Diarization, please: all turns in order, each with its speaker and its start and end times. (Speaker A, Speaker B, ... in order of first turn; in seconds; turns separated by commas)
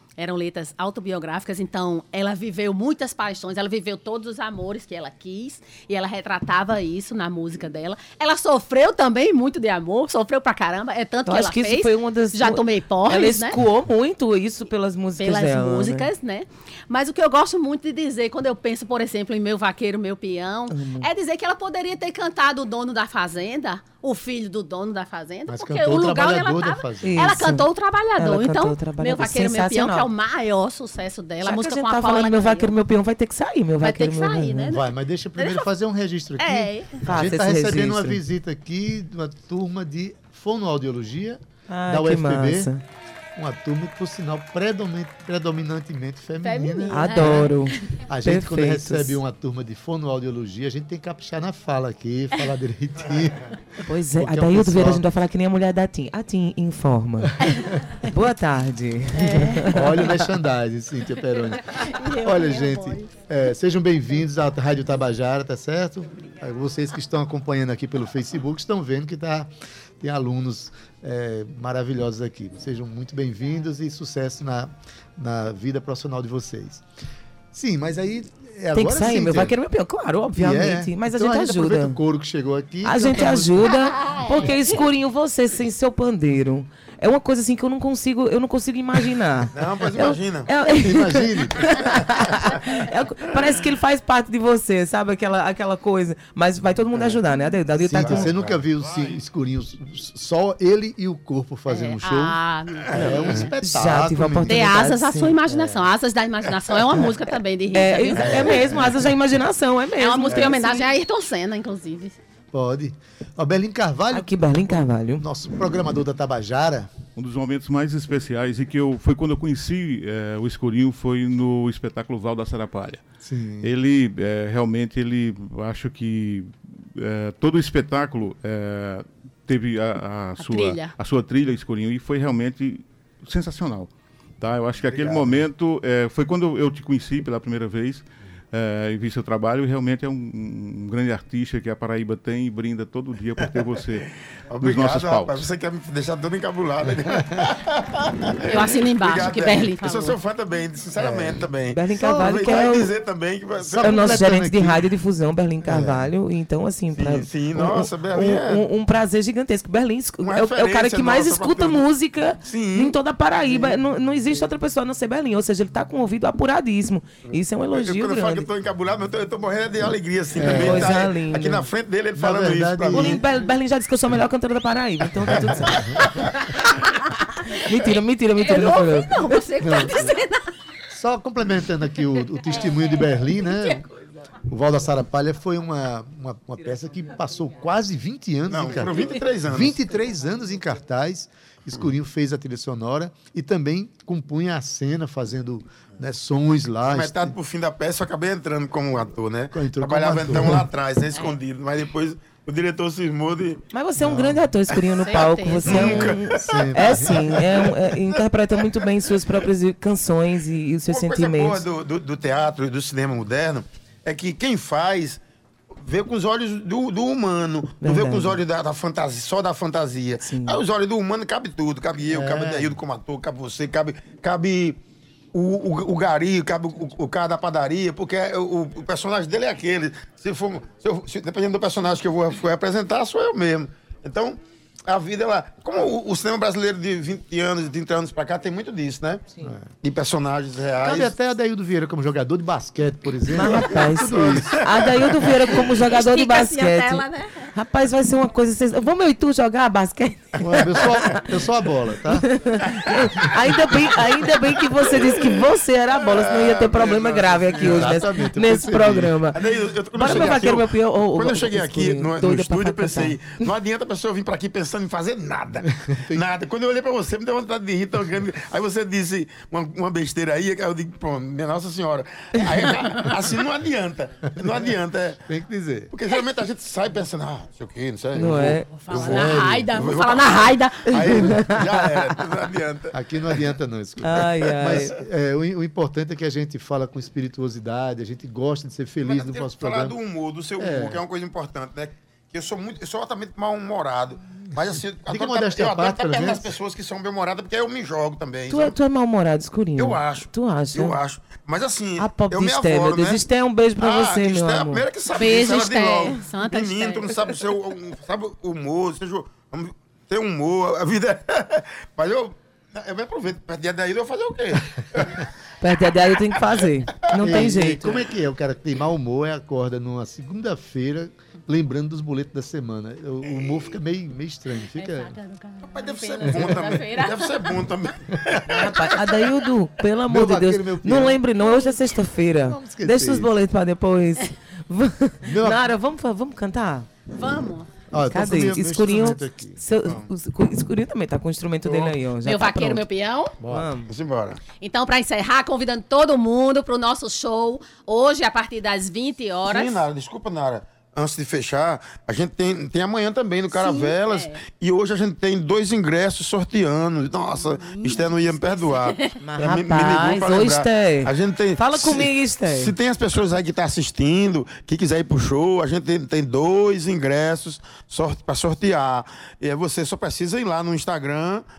Speaker A: 0.2-13.6, Speaker B: 11.3-16.1, Speaker A: 15.2-32.7, Speaker B: 20.7-21.1, Speaker C: 25.5-27.2, Speaker B: 27.0-30.1, Speaker B: 31.4-34.7, Speaker A: 33.8-35.7, Speaker C: 34.7-42.7, Speaker A: 36.4-37.1, Speaker B: 37.0-38.2, Speaker B: 41.7-42.8, Speaker C: 43.4-47.5, Speaker A: 46.4-47.9, Speaker B: 46.9-49.2, Speaker C: 48.1-55.1, Speaker B: 53.9-57.4, Speaker B: 58.0-60.1, Speaker A: 59.1-59.8, Speaker C: 59.6-76.8, Speaker A: 61.6-63.1, Speaker C: 77.5-79.6, Speaker B: 78.7-82.0, Speaker C: 80.3-83.8, Speaker B: 82.8-98.3, Speaker D: 89.5-90.5, Speaker C: 90.8-91.9, Speaker C: 97.8-104.9, Speaker D: 98.0-98.9, Speaker A: 101.7-103.5, Speaker B: 103.6-105.4, Speaker A: 104.5-108.7, Speaker C: 105.5-105.9, Speaker B: 107.7-110.9, Speaker D: 108.2-108.8, Speaker C: 108.3-108.9, Speaker A: 110.0-112.2, Speaker C: 112.5-116.9, Speaker B: 114.1-115.2, Speaker E: 117.2-123.0, Speaker C: 123.2-123.7, Speaker E: 123.6-144.1, Speaker A: 130.4-130.9, Speaker D: 134.9-135.4, Speaker D: 144.5-154.1, Speaker E: 144.6-145.5, Speaker A: 148.5-150.2, Speaker C: 151.0-151.4, Speaker B: 151.7-152.9, Speaker C: 152.0-152.7, Speaker C: 153.6-154.8, Speaker B: 153.8-168.5, Speaker C: 155.7-156.1, Speaker D: 156.9-158.7, Speaker D: 160.2-161.8, Speaker D: 162.4-163.0, Speaker C: 163.4-163.8, Speaker D: 167.3-173.2, Speaker C: 170.3-171.1, Speaker B: 170.4-171.7, Speaker C: 172.2-173.2, Speaker B: 172.9-175.9, Speaker C: 175.3-176.1, Speaker D: 176.0-176.3, Speaker B: 177.5-179.3, Speaker A: 178.4-180.5, Speaker C: 179.6-180.1, Speaker C: 180.9-183.8, Speaker A: 182.5-183.8, Speaker C: 184.5-197.3, Speaker D: 188.5-189.8, Speaker D: 196.9-203.6, Speaker C: 199.5-200.7, Speaker B: 203.7-211.6, Speaker C: 204.0-204.5, Speaker A: 205.0-206.1, Speaker D: 205.7-207.7, Speaker C: 205.7-207.6, Speaker D: 210.9-215.2, Speaker D: 215.8-224.8, Speaker B: 217.8-218.4, Speaker B: 220.2-220.6, Speaker C: 222.1-222.8, Speaker D: 225.3-239.3, Speaker D: 239.8-241.1, Speaker C: 240.8-244.9, Speaker B: 243.3-251.3, Speaker D: 244.1-244.5, Speaker A: 245.6-247.5, Speaker C: 250.4-252.3, Speaker B: 252.2-259.4, Speaker D: 254.9-255.2, Speaker D: 256.0-258.0, Speaker C: 257.6-259.2, Speaker D: 259.4-275.2, Speaker B: 260.0-263.5, Speaker C: 265.7-266.2, Speaker C: 275.3-275.9, Speaker D: 275.9-283.4, Speaker B: 278.1-278.7, Speaker A: 278.7-281.4, Speaker C: 278.9-279.7, Speaker B: 281.1-281.9, Speaker C: 282.9-290.0, Speaker B: 284.0-284.9, Speaker D: 289.1-298.8, Speaker C: 290.6-291.0, Speaker C: 295.1-296.5, Speaker B: 298.5-301.0, Speaker D: 299.8-303.2, Speaker B: 302.0-304.8, Speaker D: 303.8-315.3, Speaker A: 305.1-307.3, Speaker B: 315.6-318.0, Speaker D: 316.3-316.6, Speaker C: 317.1-325.2, Speaker D: 323.3-323.7, Speaker A: 324.7-327.5, Speaker D: 325.7-329.3, Speaker C: 326.3-326.7, Speaker B: 328.5-336.9, Speaker C: 330.1-331.2, Speaker C: 332.4-333.3, Speaker C: 335.2-335.7, Speaker A: 337.1-337.7, Speaker C: 337.9-340.0, Speaker B: 338.1-342.8, Speaker A: 342.2-343.4, Speaker C: 343.4-343.7, Speaker B: 343.4-343.9, Speaker D: 343.9-344.4, Speaker A: 344.6-349.8, Speaker D: 349.4-371.4, Speaker A: 353.5-354.4, Speaker A: 357.3-359.2, Speaker B: 359.2-362.7